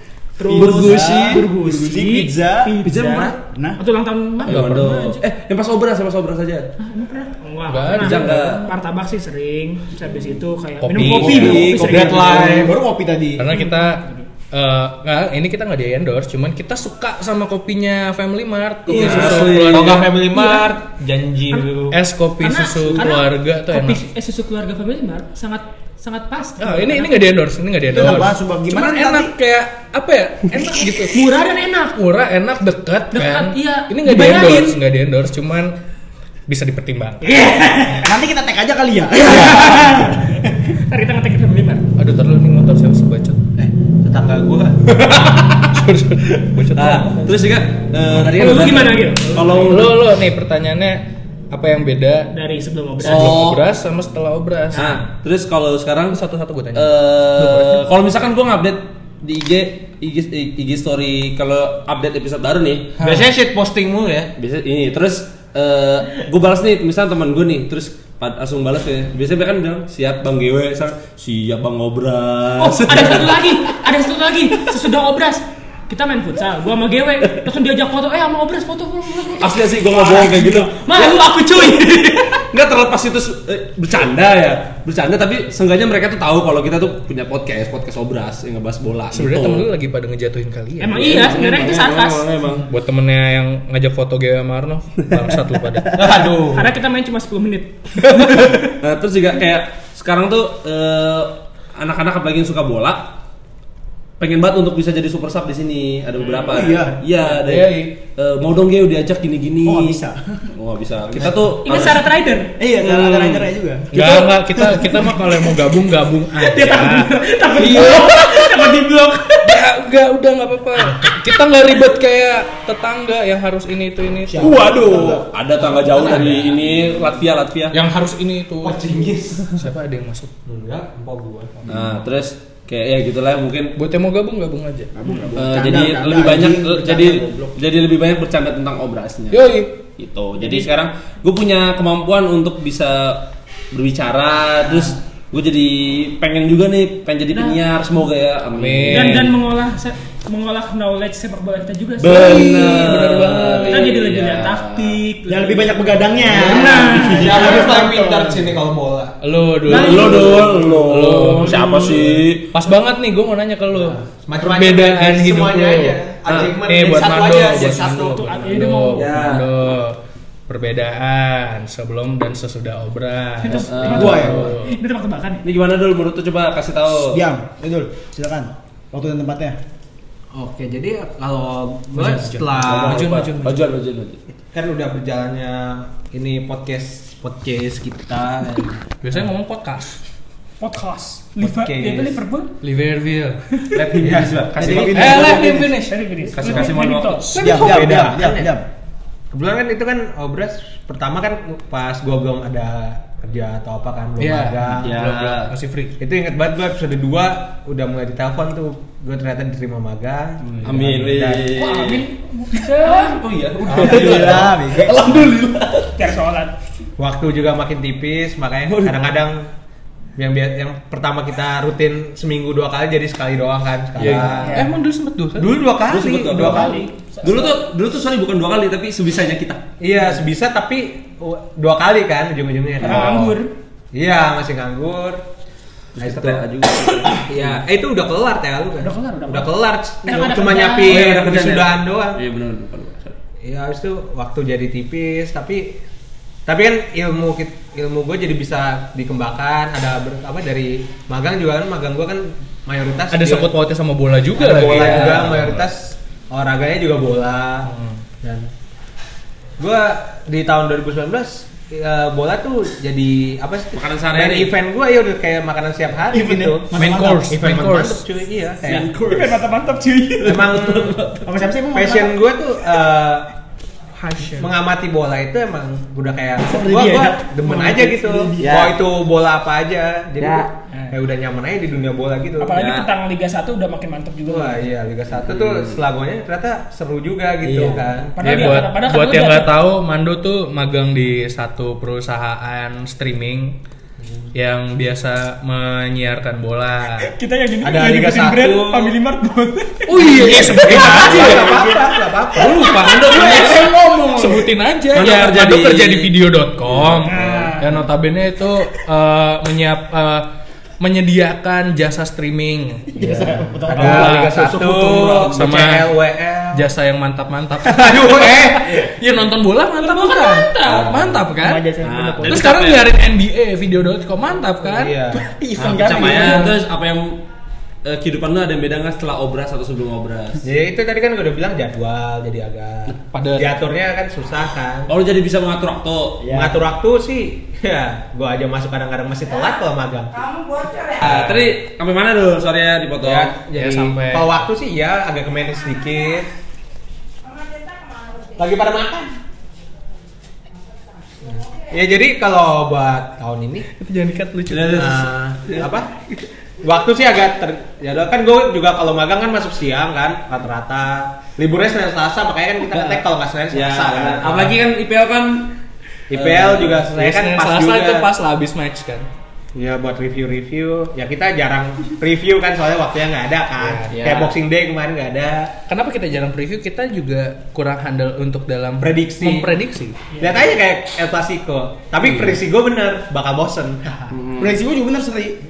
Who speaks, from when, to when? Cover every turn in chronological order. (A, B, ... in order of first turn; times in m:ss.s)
0:00.4-0:05.2 A
0:00.5-0:02.8 B
0:00.5-0:01.5 C
0:00.8-0:01.1 D
0:02.8-0:03.4 C
0:03.5-0:03.8 B
0:04.4-0:06.7 C
0:04.4-0:05.0 D
0:06.8-0:12.7 A
0:07.7-0:08.6 D
0:08.0-0:08.7 C
0:10.8-0:12.0 D
0:11.0-0:12.2 C
0:11.3-0:12.8 E
0:11.9-0:13.5 B
0:13.4-0:20.1 D
0:13.5-0:14.3 A
0:18.9-0:19.6 A
0:18.9-0:20.0 C
0:19.0-0:22.0 E
0:20.3-0:20.7 A
0:21.9-0:24.0 D
0:22.4-0:27.3 A
0:26.6-0:31.2 D
0:27.9-0:29.3 B
0:30.9-0:32.0 A
0:32.0-0:35.7 D
0:33.1-0:34.8 A
0:36.5-0:37.4 D
0:37.2-0:38.1 A
0:37.8-0:40.3 B
0:39.2-0:41.9 A
0:42.0-0:43.4 D
0:43.6-0:45.0 E
0:45.7-0:47.3 D
0:46.7-0:50.0 C
0:48.3-0:49.9 A
0:49.7-0:52.3 D
0:52.3-0:53.5 A
0:53.0-0:55.0 D
0:53.0-0:53.6 C
0:54.7-0:55.0 A
0:54.7-0:56.2 C
0:56.1-0:57.9 D
0:56.7-1:03.0 C
1:03.0-1:04.3 E
1:03.0-1:03.3 D
1:04.4-1:13.8 C
1:12.6-1:22.3 A
1:19.4-1:29.7 C
1:29.1-1:31.4 D
1:30.8-1:32.3 A
1:30.9-1:32.7 C
1:32.7-1:36.0 D
1:35.9-1:36.7 E
1:36.5-1:38.5 A
1:38.1-1:43.1 C
1:44.2-1:50.0 C
1:46.4-1:47.0 B
1:47.4-1:47.9 D
1:49.6-1:50.5 B
1:50.5-1:52.0 C
1:51.6-1:52.5 A
1:52.6-1:54.2 B
1:52.8-1:53.5 C
1:53.9-1:58.5 D
1:56.4-1:59.6 A
1:59.4-2:04.8 D
2:04.3-2:05.3 B
2:04.4-2:07.8 C
2:05.8-2:06.6 D
2:07.7-2:10.3 D
2:08.6-2:09.6 E
2:10.4-2:11.7 E
2:11.7-2:13.8 C
2:13.8-2:14.9 D
2:14.9-2:17.6 B
2:15.3-2:29.3 C
2:19.3-2:19.8 D
2:28.5-2:29.3 D
2:28.9-2:32.6 A
2:32.0-2:35.0 C
2:32.2-2:33.9 D
2:32.6-2:33.1 B
2:33.6-2:37.6 A
2:35.3-2:38.5 B
2:36.3-2:39.2 E
2:36.8-2:37.2 C
2:39.2-2:46.0 D
2:39.6-2:40.5 A
2:39.7-2:42.5 C
2:41.4-2:41.9 A
2:43.8-2:48.2 E
2:46.2-2:46.6 C
2:46.6-2:50.0 D
2:47.9-2:49.4 A
2:48.9-2:49.5 C
2:50.5-2:54.7 D
2:53.4-2:55.4 A
2:53.7-2:54.5 C
2:53.9-2:54.5 B
2:55.4-2:57.2 C
2:57.0-2:59.6 B
3:00.3-3:03.1 E
3:01.9-3:03.7 D
3:02.6-3:04.2 C
3:04.5-3:08.8 E
3:09.0-3:10.0 D
3:10.6-3:12.6 A
3:11.4-3:12.2 E
3:12.6-3:13.4 D
3:13.7-3:15.4 C
3:14.0-3:15.2 E
3:14.5-3:15.7 B
3:14.6-3:16.6 D
3:15.8-3:17.3 A
3:16.3-3:17.6 C
3:17.3-3:17.8 D
3:17.4-3:18.6 B
3:17.4-3:18.6 E
3:19.3-3:24.9 E
3:24.2-3:26.0 D
3:24.8-3:25.5 C
3:26.0-3:31.5 E
3:30.4-3:31.0 D
3:30.6-3:32.0 C
3:31.5-3:33.2 A
3:32.6-3:36.0 C
3:33.6-3:34.5 E
3:33.7-3:35.3 B
3:36.0-3:36.5 A
3:37.0-3:39.5 E
3:38.6-3:39.0 C
3:40.2-3:44.6 E
3:44.0-3:45.6 D
3:45.4-3:46.9 E
3:45.8-3:49.6 C
3:46.3-3:47.6 A
3:49.8-3:53.1 E
3:52.8-3:53.4 C
3:52.8-3:53.5 A
3:53.9-3:55.2 E
3:56.0-3:57.6 C
3:56.0-3:56.4 E
3:57.1-4:02.2 E
3:58.8-3:59.5 A
4:00.0-4:01.0 A
4:00.8-4:03.2 C
4:03.4-4:05.8 E
4:06.4-4:13.5 E
4:13.1-4:15.5 D
4:14.4-4:17.7 E
4:14.5-4:15.6 C
4:17.6-4:18.0 D
4:18.2-4:18.5 E
4:19.6-4:26.8 E
4:23.7-4:24.5 C
4:26.1-4:27.3 B
4:26.7-4:28.0 D
4:27.3-4:28.9 E
4:28.6-4:29.4 C
4:29.0-4:30.6 A
4:30.2-4:31.0 E
4:30.2-4:31.2 C
4:31.2-4:32.2 B
4:31.7-4:33.3 E
4:34.0-4:34.4 D
4:34.4-4:42.6 E
4:36.5-4:37.9 A
4:36.6-4:38.5 B
4:38.4-4:38.8 C
4:40.2-4:40.5 C
4:42.4-4:44.6 A
4:42.5-4:42.9 C
4:44.2-4:48.3 E
4:45.2-4:45.8 C
4:47.5-4:47.9 C
4:48.1-4:49.5 A
4:48.2-4:53.6 D
4:54.3-4:57.1 D
4:57.0-5:01.9 A
4:57.6-4:58.9 E
4:59.8-5:01.5 D
5:00.1-5:01.8 B
5:00.3-5:02.8 E
5:02.3-5:10.3 D
5:02.8-5:04.5 B
5:04.9-5:06.1 C
5:06.7-5:07.3 C
5:07.0-5:07.8 A
5:10.8-5:12.9 D
5:12.9-5:14.2 B
5:13.7-5:15.9 D
5:13.7-5:16.7 E
5:16.5-5:25.0 D
5:17.7-5:18.9 E
5:19.8-5:21.0 A
5:20.6-5:21.2 C
5:21.4-5:22.5 B
5:21.8-5:22.9 C
5:24.7-5:25.2 E
5:25.1-5:26.6 B
5:25.6-5:27.2 C
5:27.8-5:30.4 C
5:30.4-5:34.9 E
5:32.9-5:33.5 D
5:34.9-5:36.4 C
5:36.2-5:41.3 E
5:36.3-5:36.6 B
5:41.0-5:43.4 C
5:41.0-5:41.5 D
5:43.0-5:46.3 E
5:43.5-5:44.4 D
5:48.4-5:49.1 E
5:51.2-5:53.7 E
5:53.7-5:55.1 D
5:54.5-5:54.8 C
5:54.6-5:55.9 E
5:55.5-5:55.7 C
5:56.6-6:04.6 E
6:02.7-6:03.0 D
6:03.5-6:05.6 C
6:06.1-6:08.1 E
6:06.1-6:06.8 C
6:06.9-6:09.1 D
6:09.5-6:15.6 E
6:13.6-6:14.0 D
6:13.9-6:14.3 C
6:15.7-6:20.0 D
6:18.8-6:19.5 E
6:20.1-6:20.4 A
6:20.2-6:24.1 E
6:22.0-6:22.4 D
6:24.1-6:24.5 C
6:24.4-6:25.4 B